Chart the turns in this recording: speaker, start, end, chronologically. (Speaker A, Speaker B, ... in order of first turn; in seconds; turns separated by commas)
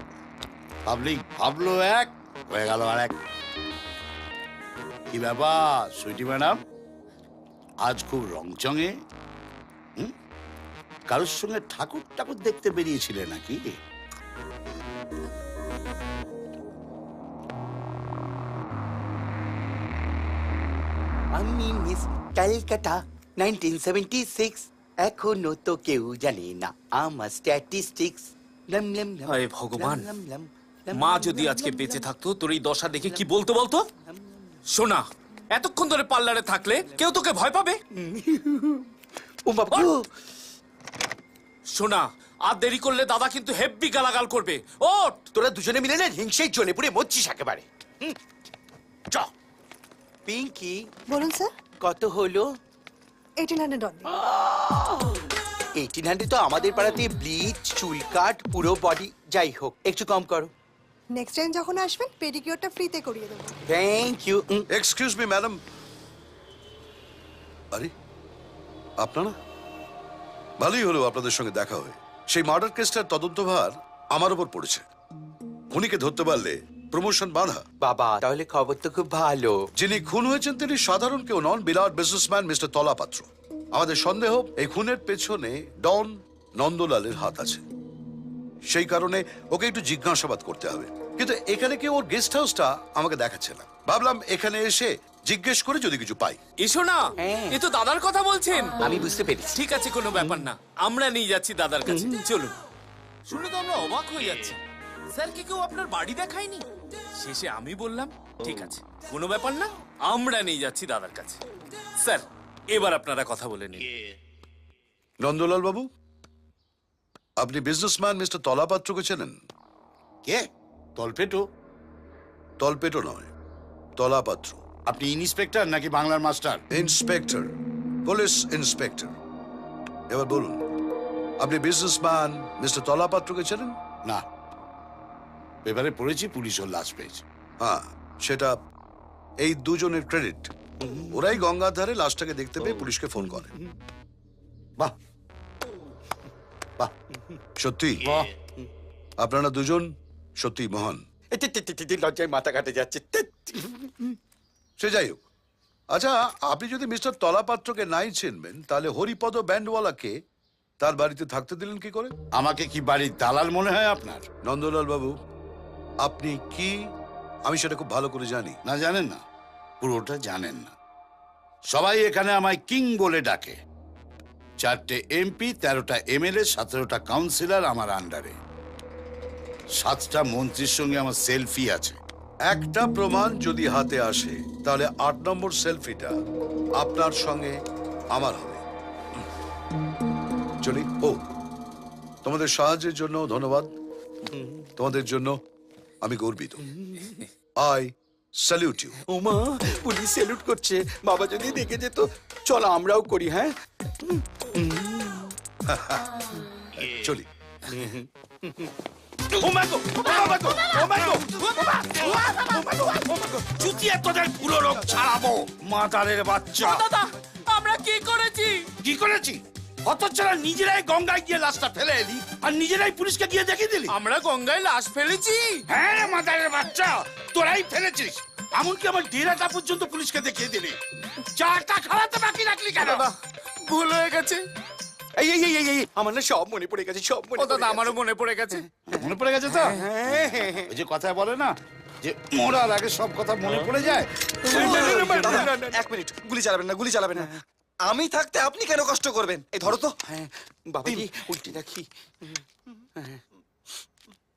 Speaker A: 0.8-3.1, Speaker A: 5.1-6.6, Speaker A: 7.8-8.9, Speaker A: 11.1-13.7, Speaker B: 21.3-32.1, Speaker C: 29.3-30.1, Speaker C: 30.9-33.8, Speaker B: 33.0-33.3, Speaker B: 34.0-34.5, Speaker C: 34.7-37.8, Speaker B: 37.9-38.9, Speaker B: 39.5-40.1, Speaker C: 41.7-45.2, Speaker B: 45.3-48.1, Speaker B: 50.3-50.8, Speaker D: 51.1-51.5, Speaker B: 51.8-52.4, Speaker D: 53.4-54.1, Speaker B: 54.1-55.1, Speaker B: 55.8-60.5, Speaker D: 61.1-63.6, Speaker B: 63.7-64.6, Speaker E: 64.7-65.6, Speaker E: 69.0-69.3, Speaker E: 70.6-74.8, Speaker E: 75.7-77.6, Speaker B: 77.8-79.6, Speaker E: 79.8-87.6, Speaker E: 88.7-96.4, Speaker C: 96.6-98.8, Speaker B: 97.2-97.6, Speaker B: 98.8-99.6, Speaker C: 99.5-102.5, Speaker B: 101.8-102.2, Speaker C: 103.3-104.6, Speaker C: 105.1-106.6, Speaker C: 107.2-111.4, Speaker C: 112.0-113.8, Speaker E: 115.2-115.9, Speaker E: 117.4-119.4, Speaker A: 121.0-121.4, Speaker E: 122.6-123.3, Speaker E: 124.0-124.6, Speaker A: 124.9-126.6, Speaker E: 126.7-129.1, Speaker E: 130.1-130.6, Speaker E: 131.4-133.8, Speaker A: 135.6-137.2, Speaker E: 137.6-138.6, Speaker E: 139.4-140.5, Speaker E: 141.1-143.5, Speaker E: 147.6-148.1, Speaker A: 148.0-148.3, Speaker E: 149.2-151.0, Speaker B: 151.3-154.1, Speaker E: 154.8-155.2, Speaker E: 155.9-160.1, Speaker E: 160.8-162.1, Speaker A: 162.3-164.2, Speaker E: 164.4-165.1, Speaker E: 166.0-166.8, Speaker E: 167.4-168.6, Speaker A: 168.7-169.2, Speaker A: 169.8-170.7, Speaker A: 171.7-173.6, Speaker A: 174.6-178.4, Speaker A: 179.8-182.0, Speaker E: 182.5-186.1, Speaker E: 186.8-187.6, Speaker E: 188.1-188.6, Speaker E: 190.6-191.2, Speaker E: 192.2-193.7, Speaker B: 194.3-194.7, Speaker E: 194.8-195.4, Speaker E: 196.0-196.6, Speaker B: 196.6-197.2, Speaker E: 197.6-199.0, Speaker B: 199.1-203.5, Speaker B: 204.0-205.3, Speaker E: 205.7-206.0, Speaker E: 206.8-207.3, Speaker B: 207.7-208.7, Speaker A: 209.3-216.8, Speaker B: 210.8-211.1, Speaker C: 216.6-218.7, Speaker A: 218.8-223.9, Speaker C: 223.9-225.7, Speaker A: 225.7-230.8, Speaker A: 231.3-233.1, Speaker C: 232.8-234.4, Speaker B: 235.2-237.9, Speaker C: 237.4-238.7, Speaker A: 238.9-239.8, Speaker B: 239.8-240.7, Speaker A: 240.7-245.5, Speaker F: 244.4-247.2, Speaker B: 244.9-246.0, Speaker F: 247.8-249.9, Speaker B: 249.7-252.4